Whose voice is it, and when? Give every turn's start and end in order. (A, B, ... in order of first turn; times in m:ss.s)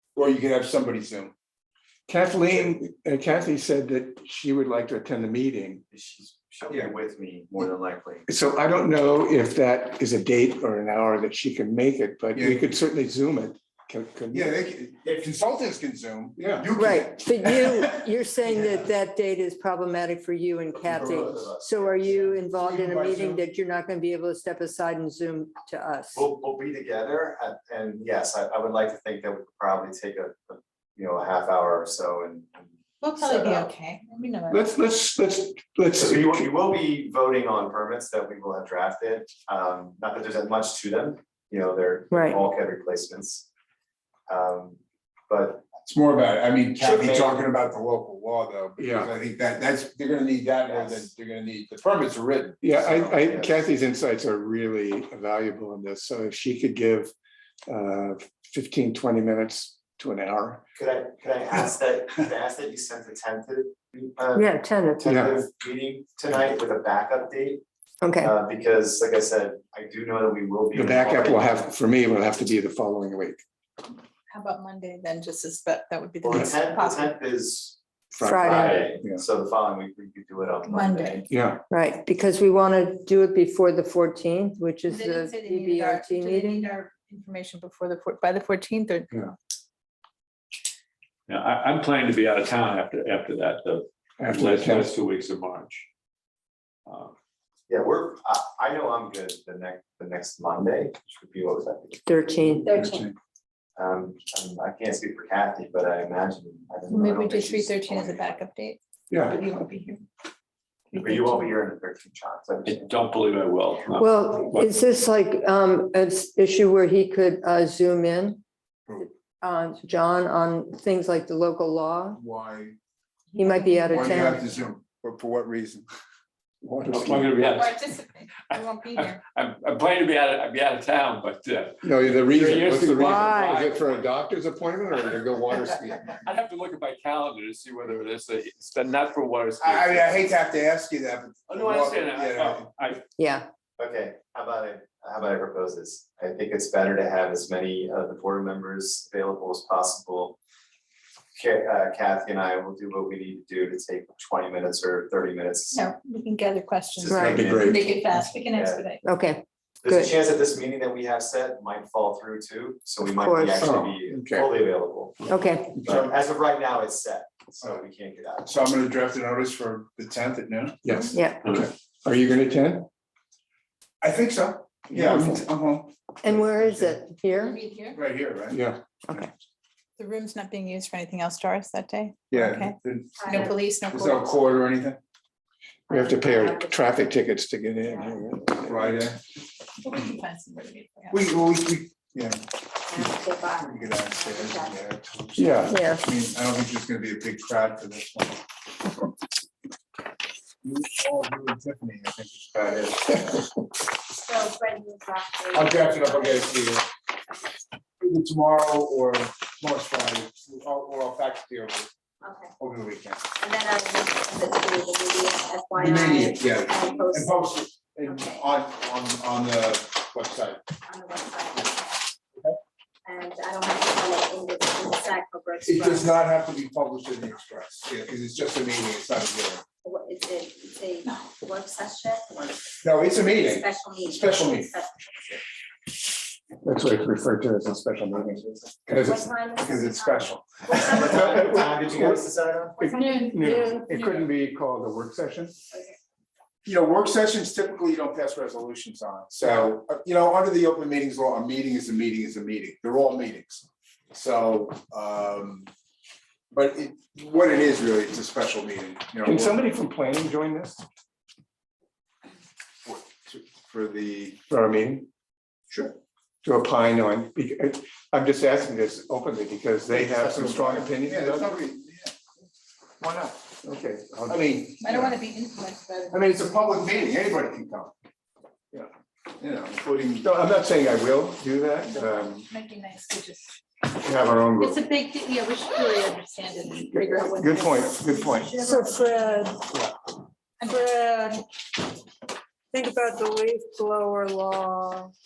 0:00.1-0:01.3 A
0:02.1-0:05.8 B
0:05.9-0:08.2 C
0:06.7-0:07.0 A
0:08.3-0:14.5 B
0:12.3-0:12.6 A
0:14.3-0:18.0 A
0:15.0-0:15.3 C
0:16.4-0:16.7 B
0:16.7-0:26.2 D
0:20.7-0:22.4 C
0:22.5-0:23.4 A
0:26.1-0:33.7 C
0:33.0-0:34.7 E
0:34.5-0:36.5 B
0:35.9-0:43.5 C
0:42.1-0:42.4 D
0:44.3-0:45.7 C
0:45.8-0:52.8 A
0:46.7-0:47.5 C
0:48.8-0:49.1 B
0:50.6-0:51.1 C
0:52.6-0:57.1 B
0:52.8-0:53.6 C
0:57.7-1:00.6 B
1:00.7-1:07.6 C
1:04.3-1:05.1 D
1:05.0-1:05.4 B
1:08.0-1:08.3 D
1:08.2-1:11.7 C
1:10.7-1:13.4 B
1:14.3-1:17.2 E
1:16.2-1:21.3 C
1:18.2-1:19.2 A
1:18.2-1:18.8 D
1:20.6-1:21.2 E
1:21.3-1:21.6 B
1:21.7-1:26.7 D
1:24.9-1:29.4 E
1:31.3-1:35.9 F
1:34.2-1:35.0 B
1:36.9-1:37.1 F
1:37.7-1:42.1 C
1:42.1-1:42.7 D
1:42.6-1:43.0 G
1:42.7-1:43.1 A
1:43.8-1:48.4 C
1:46.9-1:50.0 E
1:49.1-1:49.4 B
1:50.9-1:51.5 E
1:50.9-1:52.9 C
1:52.6-1:54.7 F
1:53.9-1:58.4 D
1:59.0-2:02.2 D
2:02.1-2:02.8 A
2:03.3-2:04.2 E
2:03.4-2:04.5 D
2:03.9-2:05.9 A
2:06.6-2:07.4 B
2:06.9-2:14.1 F
2:07.5-2:09.2 E
2:11.8-2:16.0 B
2:12.3-2:12.7 A
2:13.0-2:13.6 D
2:16.1-2:20.3 F
2:19.6-2:22.7 A
2:21.5-2:23.0 F
2:23.2-2:23.4 D
2:23.8-2:30.4 C
2:31.3-2:35.8 C
2:35.7-2:39.0 E
2:37.0-2:37.9 C
2:37.1-2:37.5 D
2:37.3-2:37.8 B
2:37.4-2:37.6 A
2:38.4-2:38.9 C
2:39.0-2:40.1 D
2:39.8-2:48.5 C
2:43.0-2:43.7 D
2:43.6-2:44.5 B
2:45.3-2:45.7 D
2:45.8-2:46.2 A
2:47.6-2:47.9 A
2:48.4-2:50.8 A
2:50.8-2:52.9 B
2:51.1-2:51.4 D
2:54.0-2:57.0 A
2:54.9-2:55.4 B
2:56.2-2:57.6 D
2:57.4-2:58.0 E
2:57.9-2:59.2 A
2:58.5-2:58.8 B
3:00.0-3:04.4 E
3:02.3-3:05.0 A
3:03.2-3:03.5 G
3:05.9-3:07.1 G
3:05.9-3:09.1 B
3:07.8-3:08.2 G
3:08.6-3:09.2 A
3:09.8-3:11.3 E
3:11.1-3:18.4 A
3:12.9-3:14.8 G
3:15.4-3:15.8 B
3:15.7-3:16.0 D
3:20.6-3:23.3 A
3:24.1-3:26.6 G
3:25.5-3:26.8 A
3:28.0-3:31.9 A
3:32.2-3:32.6 G
3:32.6-3:33.3 A
3:33.4-3:38.6 G
3:35.7-3:40.6 A
3:40.8-3:42.1 G
3:43.0-3:46.2 G
3:45.6-3:49.6 A
3:49.8-3:55.4 G
3:52.8-3:54.7 A
3:56.6-3:59.2 B
3:58.1-3:58.7 C
3:58.9-4:01.4 A
3:58.9-4:01.0 G
4:00.7-4:02.9 C
4:01.1-4:02.2 B
4:02.8-4:05.5 B
4:02.8-4:03.2 G
4:03.5-4:03.8 D
4:05.7-4:06.0 G
4:06.6-4:15.7 A
4:16.5-4:19.6 A
4:19.2-4:20.8 B
4:22.8-4:24.4 A
4:24.5-4:25.1 B
4:25.7-4:25.9 A
4:26.4-4:31.6 B
4:29.9-4:32.1 A
4:33.0-4:34.4 B
4:33.0-4:33.3 A
4:34.3-4:35.2 A
4:34.8-4:36.3 E
4:36.1-4:37.9 A
4:39.4-4:40.3 A
4:40.2-4:42.5 B
4:41.9-4:43.6 E
4:43.9-4:44.8 B
4:44.6-4:49.5 E
4:46.7-4:48.5 B
4:48.6-4:49.5 D
4:50.6-4:51.3 E
4:50.7-4:51.2 D
4:52.7-4:55.1 D